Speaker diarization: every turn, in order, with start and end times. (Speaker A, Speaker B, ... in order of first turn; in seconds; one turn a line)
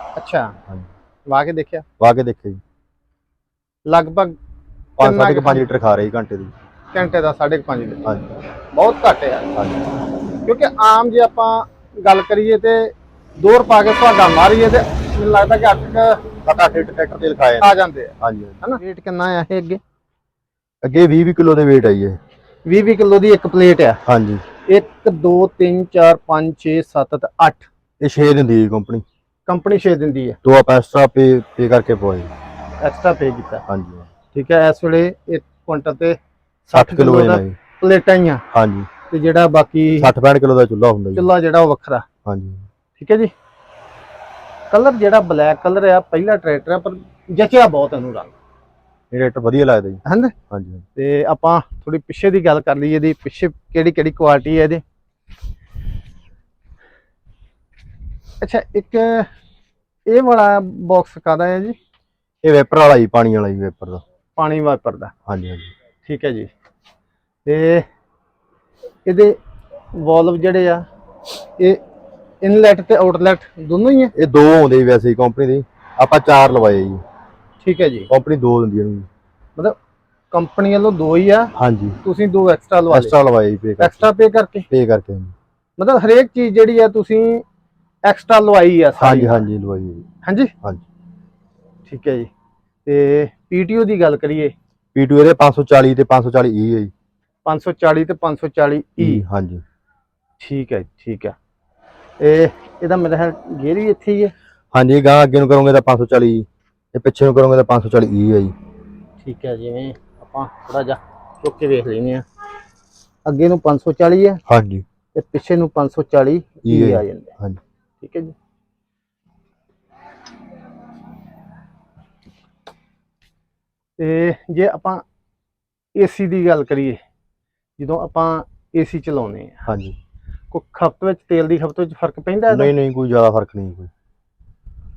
Speaker A: 0.2-0.6
Speaker A: 1.3-1.9
Speaker B: 2.0-2.6
Speaker A: 3.9-4.3
Speaker B: 5.0-6.5
Speaker A: 5.0-5.7
Speaker A: 6.9-8.0
Speaker A: 8.7-9.5
Speaker B: 9.5-9.8
Speaker A: 10.5-16.2
Speaker B: 16.4-18.6
Speaker A: 17.6-19.8
Speaker B: 20.8-22.2
Speaker A: 22.6-24.0
Speaker B: 24.1-24.4
Speaker A: 24.7-27.7
Speaker B: 28.0-29.0
Speaker A: 29.5-30.4
Speaker B: 30.4-32.3
Speaker A: 32.8-33.6
Speaker B: 33.7-34.1
Speaker A: 34.3-38.5
Speaker B: 36.7-37.6
Speaker B: 38.5-38.9
Speaker A: 39.1-40.1
Speaker B: 40.0-41.3
Speaker A: 41.1-42.0
Speaker B: 42.2-42.7
Speaker A: 43.0-43.3
Speaker A: 44.7-48.3
Speaker B: 49.1-50.8
Speaker A: 50.0-50.3
Speaker A: 51.0-54.8
Speaker A: 58.4-59.3
Speaker A: 60.1-61.8
Speaker B: 62.4-64.0
Speaker A: 64.4-65.1
Speaker B: 65.3-65.7
Speaker A: 66.0-66.5
Speaker A: 67.5-67.8
Speaker A: 69.1-69.4
Speaker A: 69.9-70.8
Speaker A: 72.4-74.1
Speaker B: 74.2-77.0
Speaker A: 77.6-78.1
Speaker B: 78.1-79.1
Speaker A: 80.3-81.5
Speaker B: 81.5-82.0
Speaker A: 82.0-83.1
Speaker B: 82.9-84.1
Speaker A: 83.8-84.7
Speaker B: 84.7-85.3
Speaker A: 85.8-87.4
Speaker A: 88.0-89.5
Speaker B: 89.0-90.1
Speaker A: 90.2-90.5
Speaker A: 91.9-92.3
Speaker A: 92.9-94.5
Speaker B: 95.0-96.9
Speaker A: 97.5-99.2
Speaker B: 99.0-99.6
Speaker A: 100.4-101.3
Speaker A: 102.2-104.3
Speaker B: 104.7-108.5
Speaker A: 109.2-112.2
Speaker A: 113.2-114.4
Speaker B: 114.5-114.8
Speaker A: 115.1-117.3
Speaker B: 116.7-117.6
Speaker A: 118.0-118.3
Speaker A: 124.0-125.0
Speaker A: 126.0-127.0
Speaker A: 127.8-129.7
Speaker B: 129.7-130.0
Speaker A: 130.5-132.7
Speaker B: 132.5-133.9